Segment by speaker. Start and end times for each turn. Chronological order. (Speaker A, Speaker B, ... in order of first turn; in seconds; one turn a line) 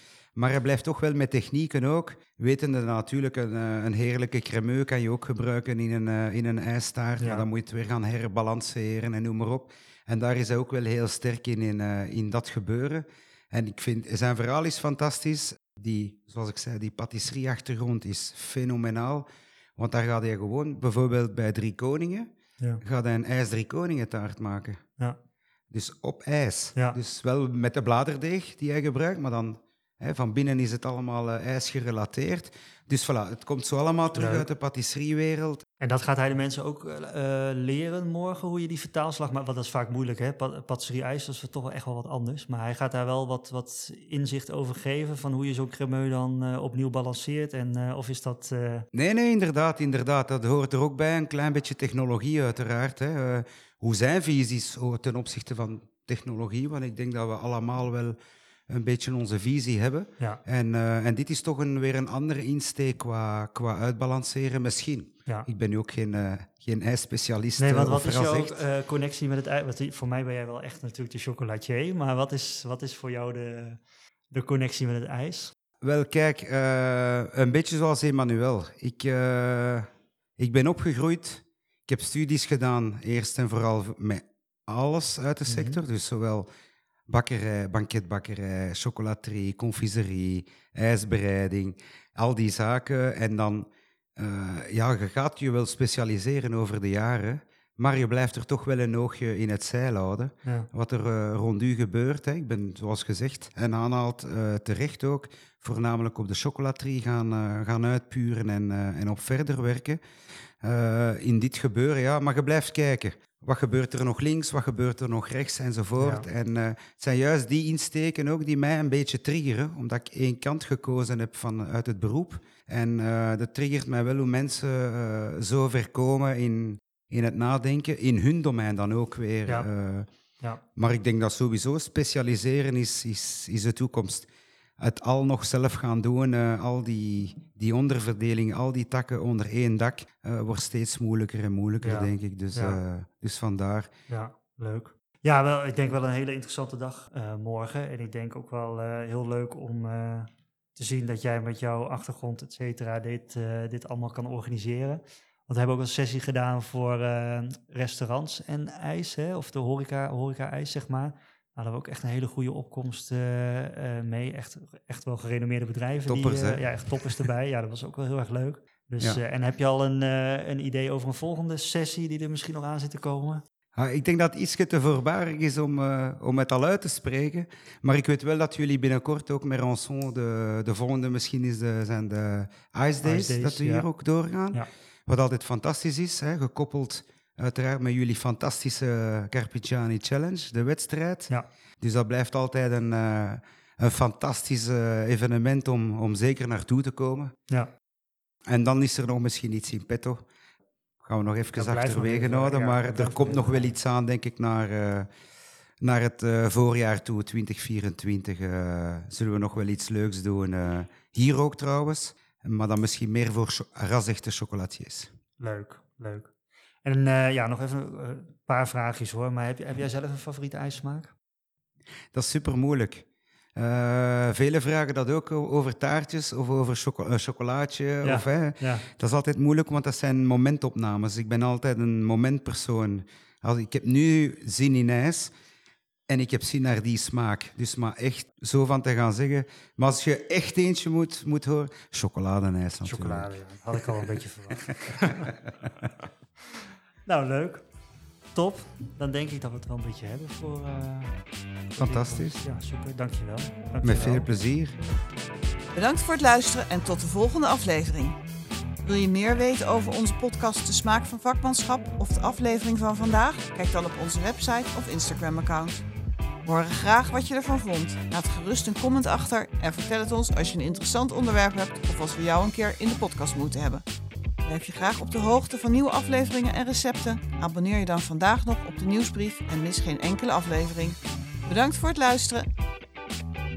Speaker A: 0.4-19.3
Speaker B: 7.2-7.5
Speaker A: 19.8-22.3
Speaker A: 22.8-24.8
Speaker A: 25.7-35.6
Speaker B: 34.1-34.5
Speaker B: 35.8-48.9
Speaker A: 48.9-58.2
Speaker A: 58.7-68.6
Speaker B: 67.6-75.5
Speaker A: 75.8-86.5
Speaker B: 85.5-85.8
Speaker A: 87.1-110.0
Speaker A: 110.6-130.1
Speaker B: 116.0-116.3
Speaker A: 130.8-134.3
Speaker A: 134.8-143.9
Speaker B: 141.8-142.8
Speaker B: 144.1-173.4
Speaker A: 166.1-166.7
Speaker A: 173.8-197.3
Speaker B: 183.0-183.9
Speaker A: 198.5-200.2
Speaker A: 201.0-205.1
Speaker B: 201.6-203.8
Speaker A: 205.8-215.1
Speaker B: 215.4-216.3
Speaker B: 216.8-221.1
Speaker A: 222.1-223.0
Speaker A: 223.6-235.3
Speaker B: 228.0-228.9
Speaker A: 236.1-243.3
Speaker B: 242.8-245.4
Speaker A: 244.9-245.3
Speaker B: 247.1-247.7
Speaker B: 248.3-251.2
Speaker B: 251.7-254.3
Speaker A: 251.8-252.4
Speaker A: 253.8-254.8
Speaker C: 255.8-258.2
Speaker C: 258.8-265.8
Speaker C: 266.4-273.9
Speaker C: 274.4-282.5